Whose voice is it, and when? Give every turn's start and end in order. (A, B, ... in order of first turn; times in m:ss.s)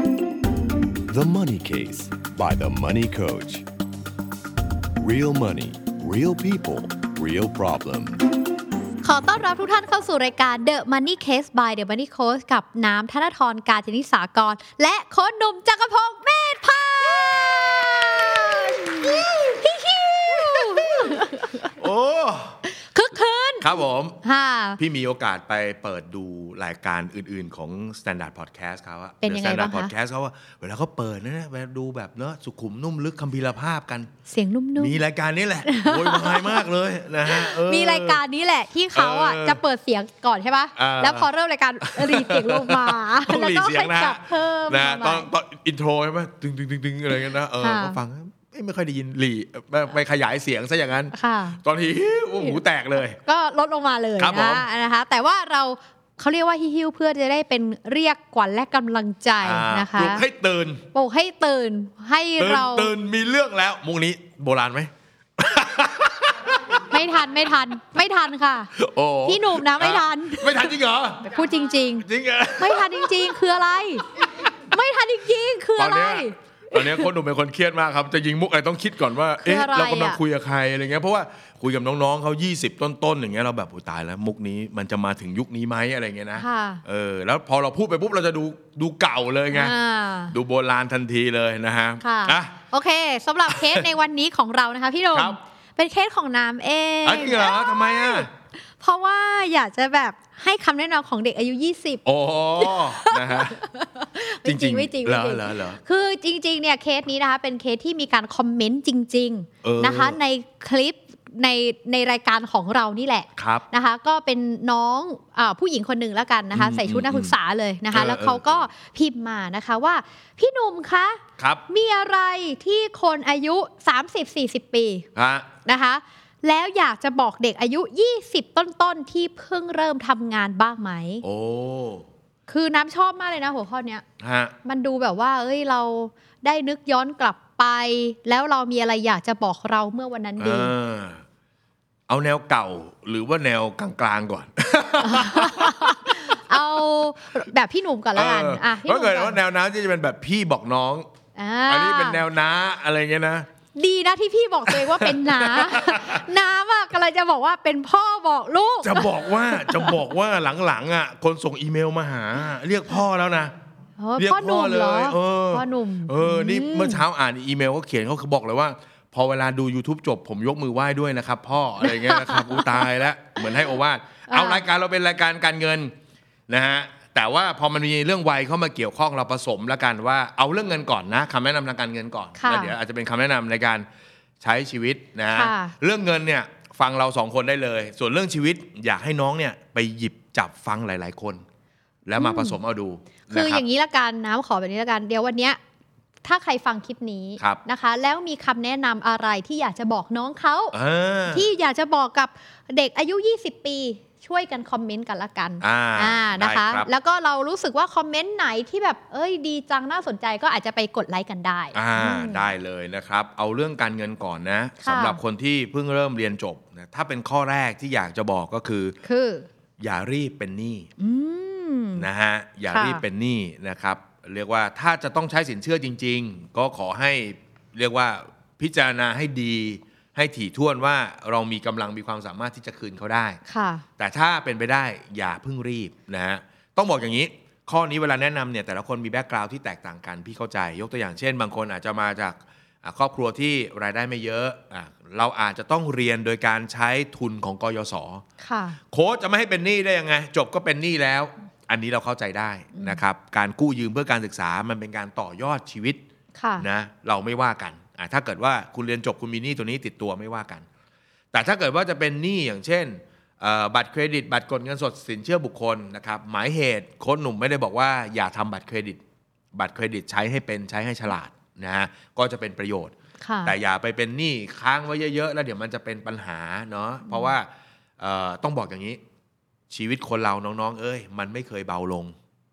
0:01.1-0:03.6 A
0:05.0-0:08.2 A
0:09.0-0:21.7 B
0:19.0-0:19.6 C
0:20.3-0:22.6 C
0:22.6-0:24.8 B
0:23.6-0:24.2 C
0:24.8-0:34.1 C
0:29.2-0:29.9 B
0:34.3-0:35.0 B
0:34.8-0:38.2 C
0:35.6-0:36.6 B
0:37.2-0:45.3 B
0:38.9-0:39.6 C
0:40.8-0:41.3 C
0:41.8-0:53.2 C
0:47.6-0:48.0 B
0:51.1-0:51.6 B
0:53.2-1:00.2 B
0:54.2-0:54.6 C
0:59.4-1:00.8 C
1:00.9-1:02.9 B
1:02.4-1:06.8 C
1:06.9-1:08.7 B
1:08.7-1:11.3 C
1:09.2-1:14.1 B
1:12.0-1:13.4 C
1:14.7-1:17.1 B
1:15.8-1:29.7 C
1:19.4-1:20.2 B
1:26.4-1:26.8 B
1:29.5-1:30.3 B
1:30.3-1:32.6 C
1:32.0-1:42.0 B
1:33.5-1:33.9 C
1:35.1-1:35.4 C
1:37.0-1:38.3 C
1:42.0-1:43.6 C
1:42.6-2:05.1 B
1:44.4-1:45.8 C
1:49.6-1:50.2 C
1:53.4-1:53.6 C
1:56.5-1:57.4 C
1:57.9-1:58.7 C
2:01.4-2:01.6 C
2:05.1-2:05.5 C
2:05.6-2:11.2 B
2:11.2-2:12.1 C
2:12.5-2:14.0 B
2:14.2-2:14.5 C
2:14.6-2:20.7 B
2:20.4-2:21.2 C
2:22.1-2:26.6 C
2:25.0-2:29.4 B
2:28.2-2:31.0 C
2:31.4-2:32.2 B
2:31.7-2:33.5 C
2:33.7-2:40.0 B
2:34.7-2:36.2 C
2:38.8-2:43.5 C
2:44.0-2:47.0 B
2:44.2-2:55.9 C
2:51.8-2:52.9 B
2:54.3-2:54.6 B
2:56.5-3:03.8 C
3:02.4-3:02.8 B
3:04.4-3:11.4 C
3:05.3-3:05.7 B
3:12.0-3:13.6 C
3:12.2-3:12.6 B
3:13.3-3:15.6 B
3:16.2-3:20.7 B
3:20.7-3:21.5 C
3:21.3-3:32.4 B
3:25.6-3:26.9 C
3:31.7-3:39.0 C
3:34.8-3:35.2 B
3:39.0-3:39.5 B
3:39.8-3:40.9 C
3:41.0-3:42.1 B
3:42.0-3:53.4 C
3:42.7-3:43.0 B
3:53.5-3:53.8 B
3:54.0-4:08.2 C
4:08.4-4:08.8 B
4:08.9-4:16.0 C
4:12.7-4:13.0 B
4:16.4-4:16.6 B
4:16.6-4:20.6 C
4:21.3-4:29.0 C
4:29.5-4:32.9 C
4:33.2-4:33.5 B
4:33.4-4:39.0 C
4:37.1-4:37.3 B
4:39.7-4:42.1 C